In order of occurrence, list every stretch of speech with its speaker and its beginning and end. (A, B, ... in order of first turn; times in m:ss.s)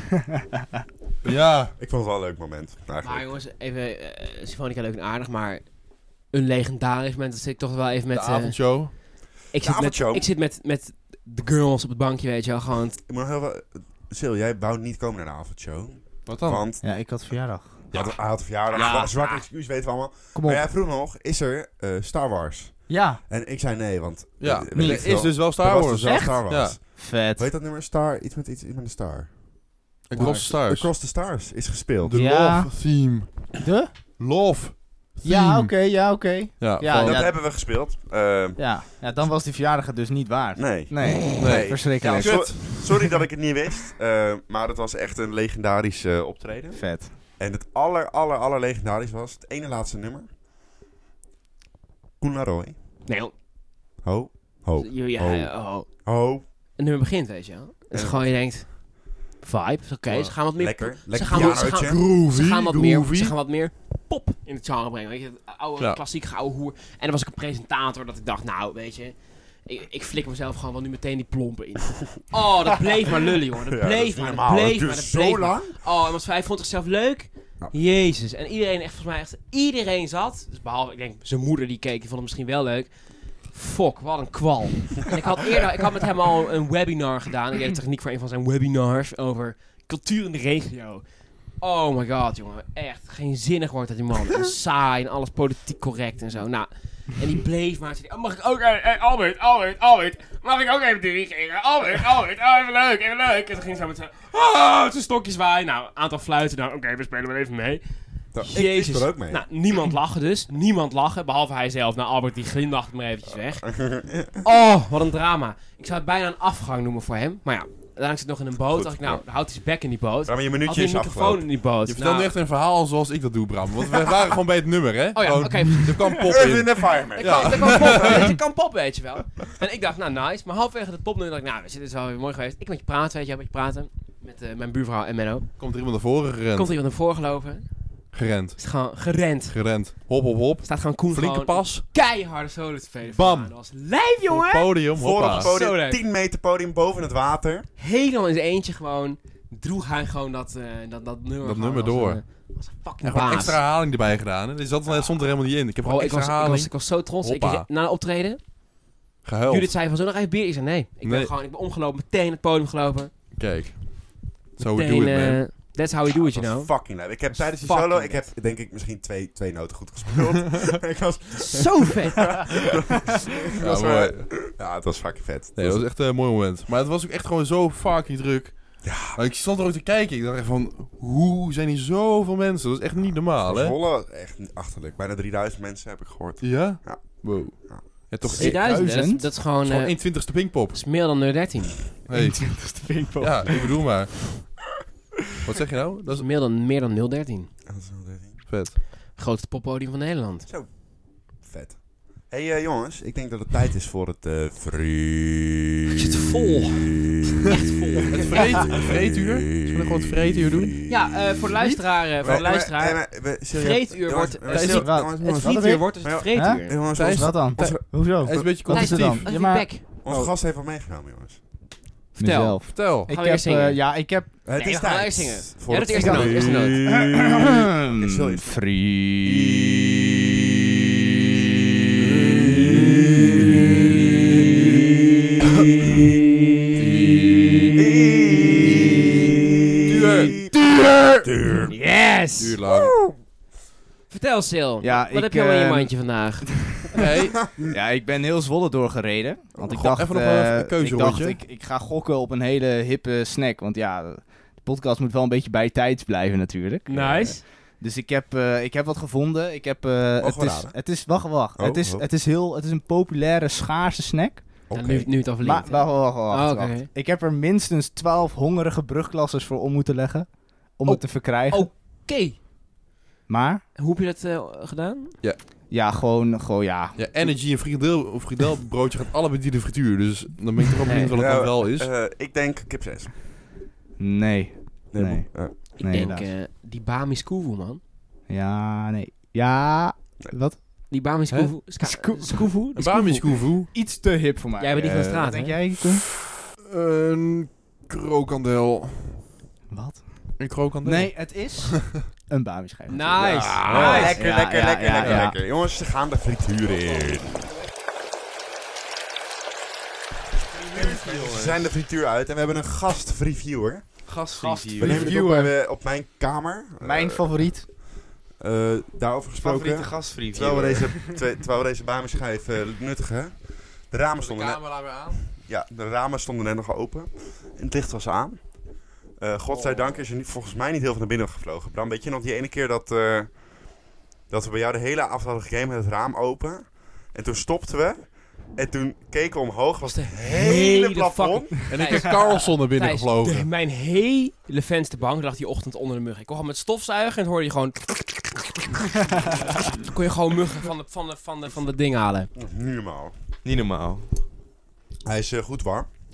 0:01.2-0:01.7 A
0:01.8-0:03.3 B
0:03.0-0:09.0 C
0:08.1-0:09.0 A
0:09.5-0:13.0 C
0:09.5-0:10.3 B
0:13.1-0:16.8 B
0:16.2-0:16.6 A
0:16.8-0:17.9 D
0:17.9-0:29.6 B
0:18.7-0:19.4 C
0:18.7-0:19.1 D
0:20.3-0:20.7 D
0:22.9-0:23.2 D
0:24.4-0:26.8 A
0:24.7-0:25.4 D
0:26.0-0:27.5 D
0:30.1-0:30.9 A
0:30.1-0:32.2 B
0:30.2-0:30.5 D
0:32.0-0:35.7 A
0:32.1-0:33.0 D
0:33.6-0:33.9 D
0:35.2-0:37.4 D
0:36.6-0:37.3 A
0:36.8-0:38.6 B
0:38.6-0:43.1 D
0:40.6-0:50.3 B
0:41.4-0:42.5 A
0:46.7-0:47.1 D
0:52.2-0:52.7 B
0:53.0-0:53.3 C
0:54.0-0:56.4 B
0:54.8-1:53.8 C
0:57.9-0:58.3 B
1:00.1-1:00.3 A
1:00.5-1:02.1 B
1:01.3-1:03.3 A
1:13.7-1:15.8 B
1:48.3-1:49.4 B
1:53.6-1:54.4 B
1:54.4-2:02.3 C
1:58.7-1:59.2 B
2:00.2-2:01.4 B
2:01.9-2:08.3 A
2:05.1-2:06.3 C
2:06.2-2:08.4 B
2:07.1-2:15.7 C
2:15.6-2:16.7 A
2:16.5-2:17.8 C
2:18.1-2:18.9 A
2:18.6-2:19.9 C
2:19.5-2:21.8 A
2:20.6-2:26.0 C
2:23.1-2:23.5 A
2:24.2-2:25.5 A
2:24.9-2:27.6 B
2:27.8-2:33.6 C
2:31.4-2:32.5 A
2:33.0-2:37.6 A
2:35.8-2:38.4 C
2:39.2-2:39.8 A
2:39.5-2:43.1 C
2:41.0-2:41.3 A
2:43.3-2:45.5 A
2:44.6-2:48.3 C
2:46.2-2:55.9 B
2:51.4-2:52.5 C
2:53.6-2:54.5 A
2:55.5-3:03.8 A
2:58.8-2:59.2 B
3:03.4-3:08.5 B
3:06.4-3:08.8 A
3:08.3-3:11.8 C
3:08.4-3:09.3 D
3:09.6-3:10.8 A
3:12.1-3:14.5 A
3:12.1-3:13.9 D
3:15.4-3:16.2 A
3:16.1-3:17.5 C
3:17.7-3:18.4 B
3:18.5-3:18.8 A
3:19.1-3:20.5 C
3:20.5-3:25.9 B
3:25.9-3:28.8 C
3:28.1-3:30.8 A
3:28.3-3:31.4 B
3:30.9-3:37.1 C
3:31.6-3:32.4 D
3:32.2-3:38.5 B
3:34.5-3:34.8 A
3:34.6-3:39.7 D
3:36.9-3:39.3 A
3:38.7-3:39.8 C
3:40.0-3:41.4 B
3:42.2-3:44.4 D
3:42.2-3:47.0 C
3:42.7-3:43.1 A
3:44.4-3:48.6 B
3:45.9-3:49.5 D
3:49.2-3:49.7 B
3:56.7-3:57.8 A
3:57.8-3:59.3 B
3:59.8-4:01.3 A
3:59.9-4:00.5 B
4:01.2-4:01.7 B
4:01.7-4:02.6 C
4:02.4-4:03.0 A
4:02.6-4:03.1 B
4:04.1-4:06.9 C
4:04.8-4:07.0 D
4:06.9-4:07.4 A
4:07.6-4:24.6 D
4:09.7-4:11.4 A
4:16.8-4:17.4 C
4:16.9-4:17.4 B
4:20.2-4:20.8 B
4:21.5-4:22.1 B
4:24.7-4:25.1 B
4:24.7-4:26.9 C
4:25.4-4:31.7 D
4:30.8-4:32.4 C
4:33.3-4:33.6 D
4:33.8-4:35.2 C
4:35.7-4:37.4 D
4:37.0-4:41.9 A
4:40.8-4:41.1 C
4:41.2-4:43.1 B
4:44.0-4:46.3 D
4:44.9-4:45.6 B
4:45.8-4:47.8 C
4:48.3-4:50.6 D
4:50.9-4:53.3 C
4:51.8-4:52.5 D
4:52.8-4:53.7 A
4:53.7-4:56.0 D
4:54.6-4:55.6 C
4:56.6-4:59.2 A
4:59.7-5:05.4 D
5:00.4-5:02.0 A
5:02.9-5:04.2 C
5:03.2-5:07.4 B
5:03.7-5:04.1 A
5:05.0-5:05.3 A
5:10.5-5:11.6 E
5:10.7-5:14.2 B
5:14.0-5:15.1 E
5:14.4-5:14.8 C
5:14.8-5:17.8 B
5:14.8-5:15.5 D
5:16.8-5:17.7 D
5:18.4-5:28.6 B
5:19.4-5:21.0 E
5:24.2-5:25.3 A
5:29.1-5:41.8 B
5:39.8-5:52.3 C
5:41.7-5:43.5 A
5:52.3-5:53.1 B
5:53.4-5:54.1 E
5:55.0-5:55.9 B